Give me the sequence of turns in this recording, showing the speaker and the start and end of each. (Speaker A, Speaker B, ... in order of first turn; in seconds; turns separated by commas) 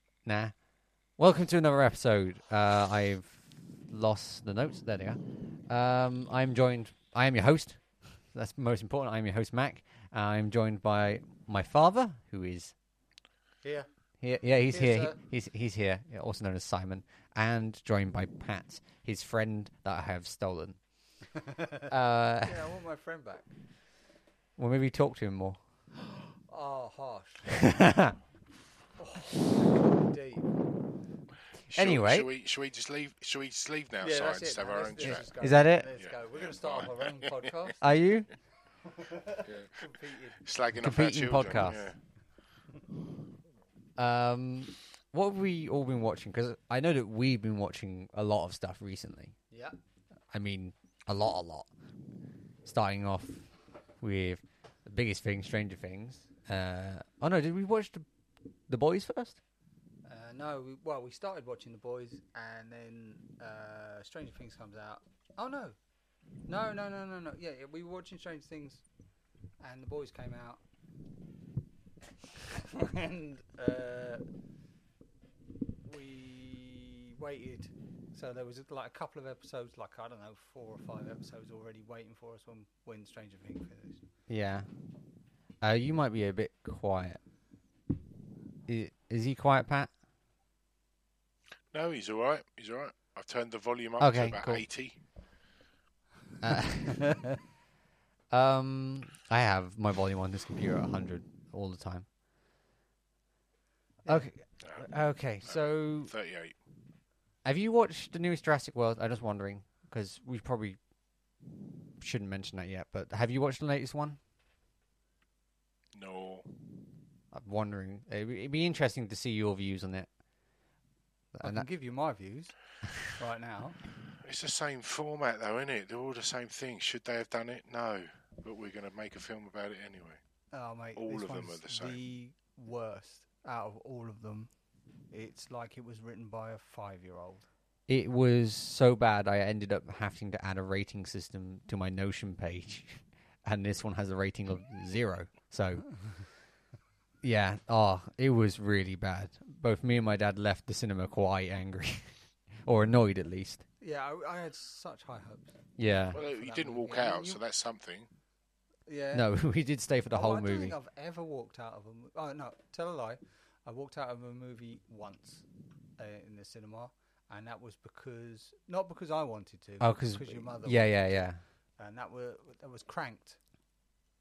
Speaker A: 0.2-0.5, Speaker A: 1.2-12.7, Speaker B: 13.6-13.9, Speaker A: 14.2-20.8, Speaker B: 14.7-15.2, Speaker B: 21.3-21.9, Speaker A: 21.9-22.6, Speaker B: 22.4-23.5, Speaker A: 24.6-25.6, Speaker B: 26.1-27.6, Speaker A: 27.5-28.2, Speaker B: 29.0-30.5, Speaker A: 31.7-32.3, Speaker C: 31.7-35.4, Speaker B: 34.0-37.8, Speaker A: 35.0-35.9, Speaker C: 36.0-37.8, Speaker A: 37.8-38.3, Speaker B: 38.8-40.4, Speaker C: 39.4-42.0, Speaker A: 40.7-41.9, Speaker A: 44.0-49.3, Speaker B: 49.5-49.8, Speaker A: 50.3-51.7, Speaker A: 52.6-53.5, Speaker A: 54.0-58.0, Speaker A: 58.7-59.4, Speaker B: 60.0-65.8, Speaker B: 66.5-68.8, Speaker B: 69.6-70.6, Speaker B: 72.4-74.2, Speaker B: 75.8-84.0, Speaker A: 84.3-84.7, Speaker A: 85.6-87.2, Speaker A: 88.7-89.9, Speaker C: 91.7-95.0, Speaker A: 94.0-94.6, Speaker A: 96.4-97.3, Speaker A: 98.3-102.1, Speaker A: 104.1-106.1, Speaker C: 104.6-104.9, Speaker C: 105.4-106.5, Speaker A: 107.4-110.8, Speaker A: 112.0-114.2, Speaker C: 115.9-116.8, Speaker A: 117.3-120.1, Speaker A: 121.3-121.7, Speaker B: 121.4-122.5, Speaker B: 123.1-123.8, Speaker C: 124.1-130.2, Speaker B: 130.5-134.5, Speaker C: 130.9-132.0, Speaker B: 135.1-137.5, Speaker A: 137.9-145.9, Speaker A: 147.2-152.1, Speaker A: 152.7-153.6, Speaker B: 153.8-155.6, Speaker A: 155.8-156.2, Speaker B: 156.1-157.4, Speaker C: 156.1-158.1, Speaker B: 158.8-159.3, Speaker A: 159.1-160.7, Speaker B: 160.1-165.4, Speaker B: 166.0-171.0, Speaker A: 169.8-171.4, Speaker B: 171.8-173.4